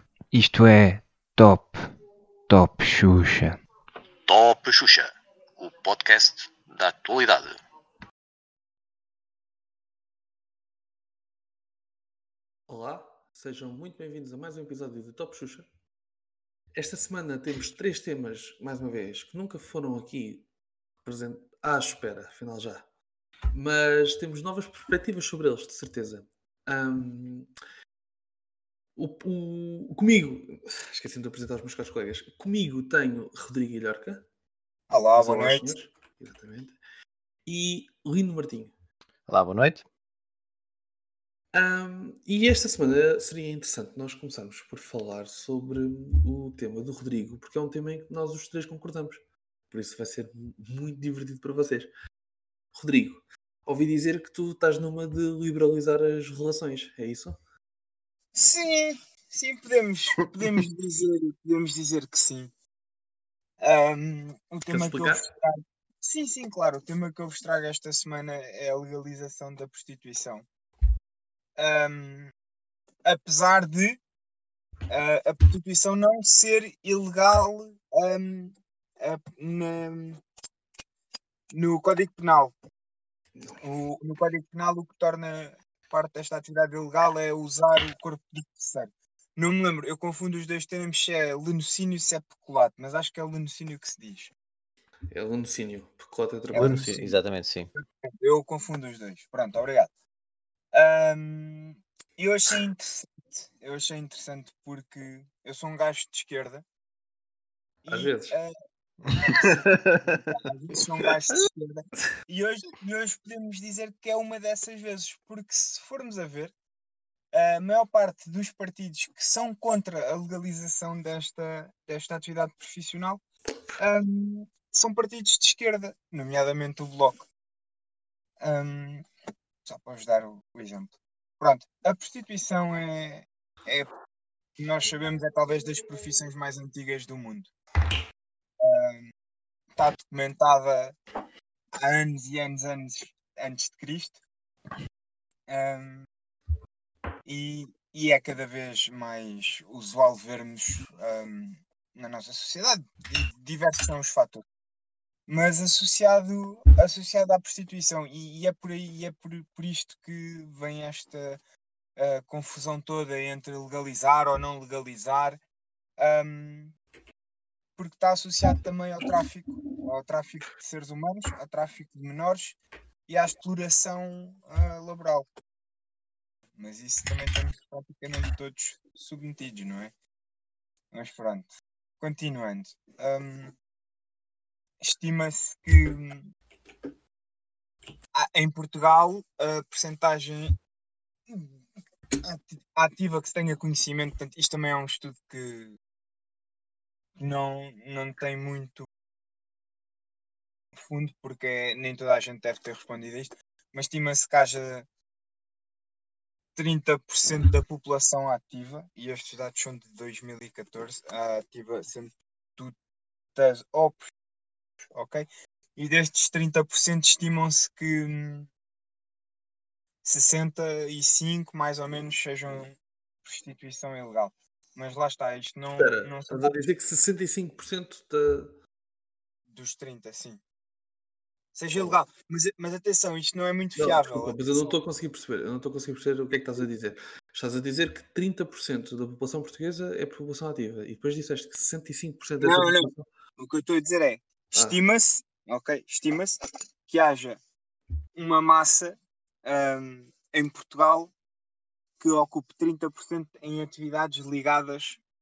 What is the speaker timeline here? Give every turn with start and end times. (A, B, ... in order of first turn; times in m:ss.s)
0:00.3-0:01.8 A
0:02.5-0:03.6 A
0:04.3-0:05.1 B
0:05.6-0:07.5 B
0:12.7-0:15.7 C
0:16.8-0:20.4 C
0:21.0-0:22.8 C
0:23.5-0:27.5 C
0:29.0-0:34.2 C
0:34.9-0:35.7 D
0:35.2-0:36.8 C
0:37.4-0:38.7 C
0:39.3-0:39.8 E
0:41.5-0:51.9 C
0:52.7-0:57.4 C
0:58.3-1:02.5 D
1:03.6-1:10.4 D
1:04.7-1:05.2 C
1:11.6-1:12.3 D
1:13.0-1:14.0 D
1:14.9-1:20.2 D
1:21.5-1:22.5 D
1:23.6-1:34.3 D
1:35.1-1:37.2 C
1:36.5-1:37.0 D
1:36.5-1:37.7 E
1:37.7-1:39.9 D
1:40.7-1:46.6 D
1:47.8-1:48.5 D
1:47.9-1:48.4 C
1:49.1-1:50.2 E
1:49.2-1:49.6 D
1:50.3-1:56.5 D
1:57.3-2:03.2 D
2:03.8-2:07.3 D
2:08.4-2:09.0 D
2:09.6-2:13.9 D
2:14.6-2:17.5 D
2:18.6-2:19.1 D
2:19.8-2:21.0 D
2:21.8-2:24.2 D
2:25.5-2:26.1 D
2:27.2-2:34.4 D
2:35.3-2:41.4 D
2:42.0-2:45.4 D
2:46.0-2:46.7 D
2:47.8-2:55.3 D
2:56.6-2:59.9 D
3:00.9-3:03.5 D
3:04.8-3:06.3 D
3:08.1-3:10.6 D
3:11.3-3:11.6 D
3:12.2-3:15.8 D
3:17.2-3:18.9 D
3:20.8-3:24.8 D
3:26.5-3:32.7 D
3:33.3-3:34.1 D
3:34.9-3:38.5 D
3:40.0-3:46.5 D
3:45.8-3:48.5 C
3:49.5-3:50.4 D
3:51.5-3:54.7 D
3:53.8-4:03.1 C
4:02.4-4:06.4 D
4:06.9-4:07.4 D
4:08.1-4:11.1 D
4:12.0-4:15.0 D